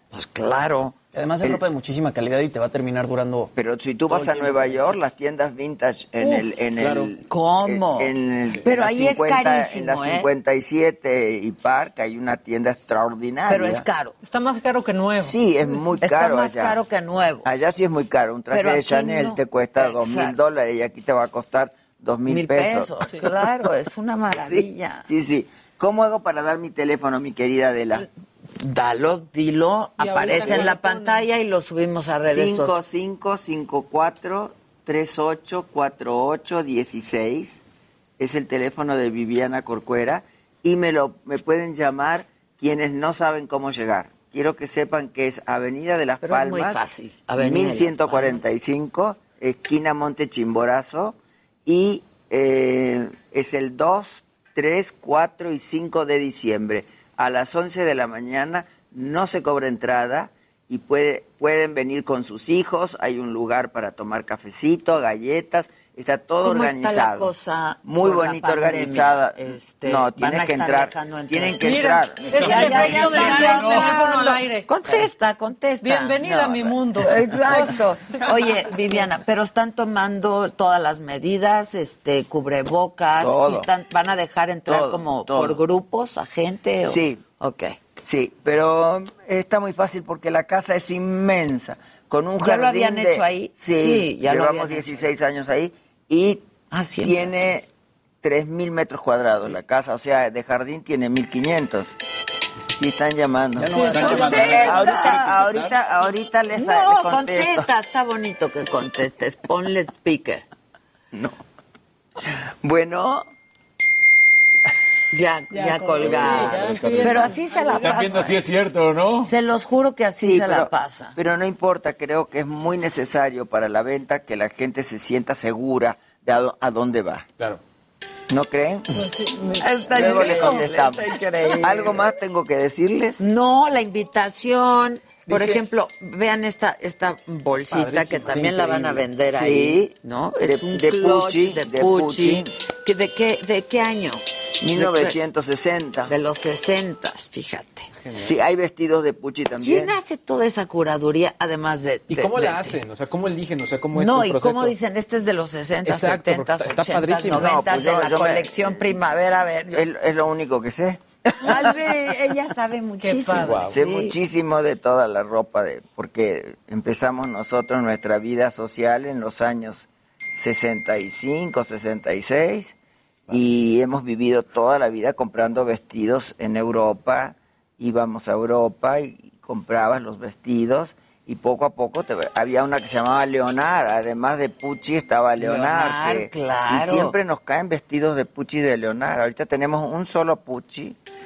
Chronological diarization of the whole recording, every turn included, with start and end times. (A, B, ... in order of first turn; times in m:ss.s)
0:00.1-0:01.0 A
0:01.1-0:03.5 B
0:03.6-0:13.8 C
0:04.1-0:05.1 B
0:06.2-0:06.5 A
0:07.2-0:10.3 A
0:13.5-0:14.2 A
0:14.2-0:15.9 D
0:15.2-0:16.8 C
0:16.0-0:17.5 A
0:17.4-0:22.9 C
0:18.5-0:20.4 A
0:22.3-0:25.1 A
0:24.4-0:28.1 C
0:28.6-0:32.8 A
0:30.0-0:31.2 D
0:32.2-0:37.6 C
0:38.2-1:07.3 C
0:46.2-0:48.4 A
1:06.4-1:11.7 A
1:07.8-1:13.2 C
1:11.6-1:14.7 D
1:12.3-1:16.4 A
1:15.8-1:17.7 D
1:16.2-1:16.7 C
1:17.0-1:27.8 A
1:23.2-1:23.7 C
1:24.7-1:25.6 C
1:26.8-1:27.2 C
1:28.0-1:36.4 C
1:32.4-1:35.1 A
1:36.7-1:37.5 A
1:37.0-1:37.7 C
1:38.2-1:42.0 C
1:42.8-1:47.7 C
1:43.6-1:45.3 B
1:43.7-1:44.3 D
1:43.9-1:45.4 A
1:45.4-1:45.7 E
1:46.5-1:50.4 A
1:52.6-1:53.3 C
1:55.1-1:58.4 A
1:55.5-1:58.3 D
1:56.0-1:59.3 F
1:59.2-2:01.2 A
2:00.2-2:07.3 C
2:08.3-2:08.9 C
2:08.9-2:10.7 D
2:09.6-2:12.1 A
2:10.0-2:11.0 C
2:11.6-2:13.3 C
2:13.2-2:25.2 A
2:17.7-2:18.9 E
2:19.3-2:22.5 C
2:24.6-2:26.1 C
2:26.1-2:27.9 A
2:28.0-2:28.4 E
2:28.2-2:30.0 C
2:29.6-2:32.8 A
2:32.1-2:34.8 E
2:33.9-2:39.8 A
2:35.8-2:37.6 E
2:37.3-2:39.1 C
2:39.7-2:41.8 C
2:41.4-2:44.2 A
2:43.0-2:43.7 D
2:43.4-2:43.8 E
2:43.7-2:52.8 C
2:53.3-3:11.0 C
3:05.4-3:07.2 A